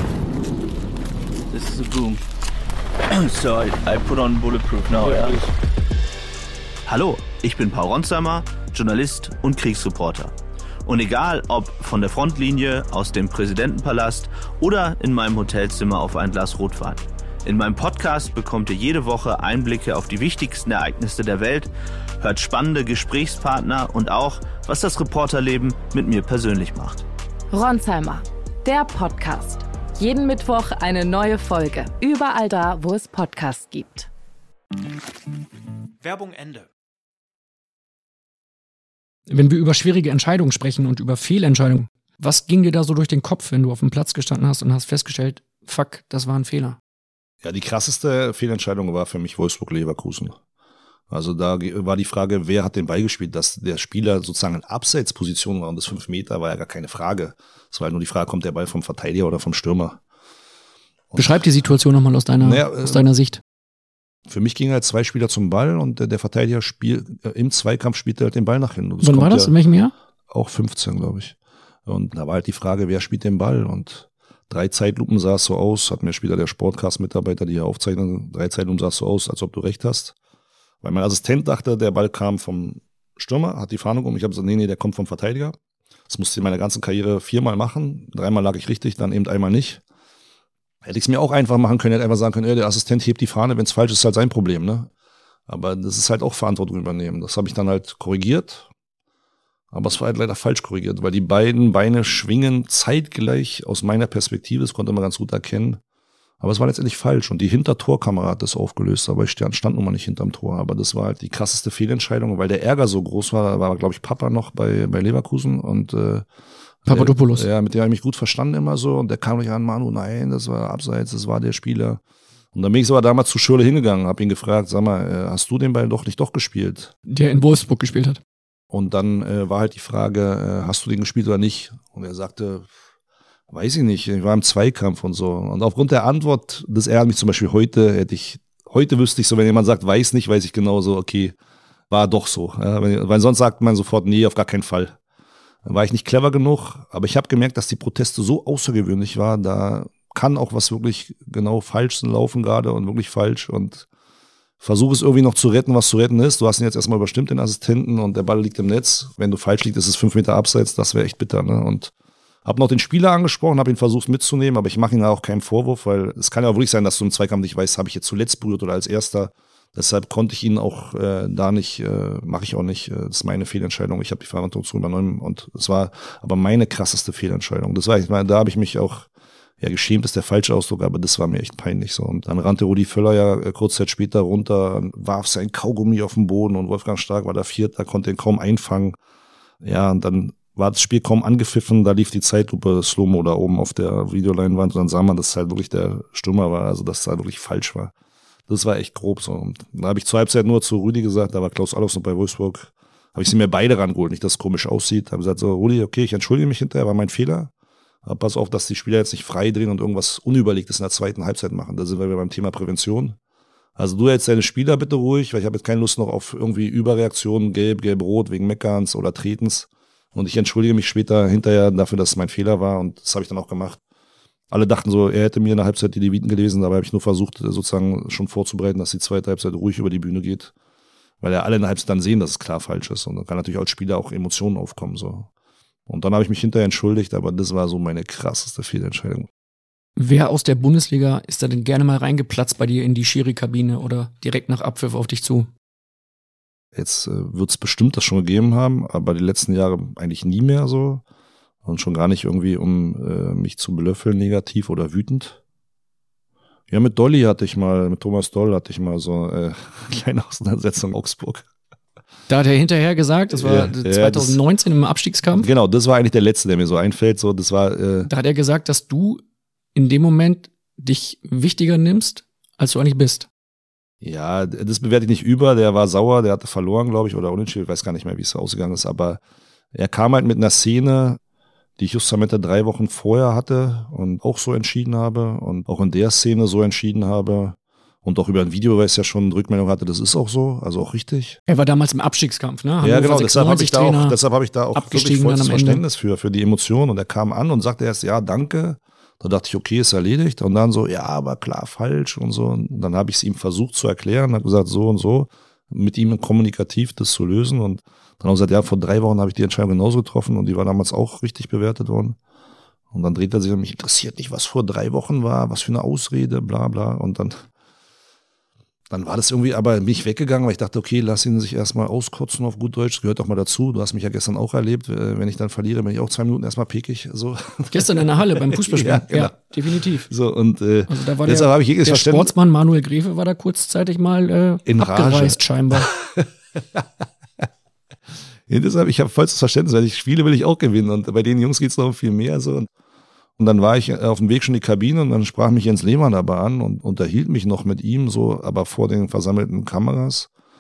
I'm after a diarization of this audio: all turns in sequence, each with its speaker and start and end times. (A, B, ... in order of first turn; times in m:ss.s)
0:01.5-0:02.2 A
0:03.1-0:05.5 A
0:06.9-0:10.3 A
0:10.9-0:27.1 A
0:27.5-0:34.1 B
0:39.3-0:46.8 C
0:47.4-0:50.4 D
0:51.1-1:00.0 D
1:01.1-1:01.4 D
1:01.2-1:03.4 C
1:02.4-1:03.1 D
1:04.3-1:09.5 D
1:09.0-1:09.9 C
1:10.3-1:20.2 D
1:20.8-1:25.6 D
1:26.1-1:29.8 D
1:30.8-1:34.9 D
1:35.5-1:38.7 D
1:39.7-1:45.8 D
1:46.4-1:56.3 D
1:56.8-2:02.0 D
1:56.9-1:57.5 C
2:02.5-2:06.9 D
2:07.1-2:08.2 C
2:08.7-2:12.7 D
2:13.5-2:21.4 D
2:21.9-2:25.0 D
2:25.7-2:33.9 D
2:34.6-2:41.9 D
2:42.4-2:59.1 D
2:59.6-3:09.0 D
3:09.6-3:17.9 D
3:18.5-3:27.5 D
3:28.0-3:33.2 D
3:33.8-3:43.8 D
3:44.5-3:50.5 D
3:51.2-3:55.3 D
3:55.9-3:59.3 D
4:00.0-4:05.5 C
4:06.8-4:11.0 D
4:11.6-4:15.4 D
4:16.7-4:21.4 D
4:22.3-4:25.5 C
4:23.4-4:24.4 D
4:25.4-4:28.1 D
4:28.1-4:29.2 C
4:29.8-4:33.3 C
4:34.0-4:39.2 D
4:39.7-4:41.2 D
4:41.8-4:51.4 D
4:51.5-4:54.2 C
4:52.8-5:12.2 D
4:54.7-4:55.8 C
5:12.9-5:17.4 D
5:18.9-5:29.5 D
5:27.7-5:30.1 C
5:30.1-5:32.3 D
5:30.9-5:35.9 C
5:34.7-5:36.8 D
5:38.5-5:42.7 D
5:43.4-5:50.3 D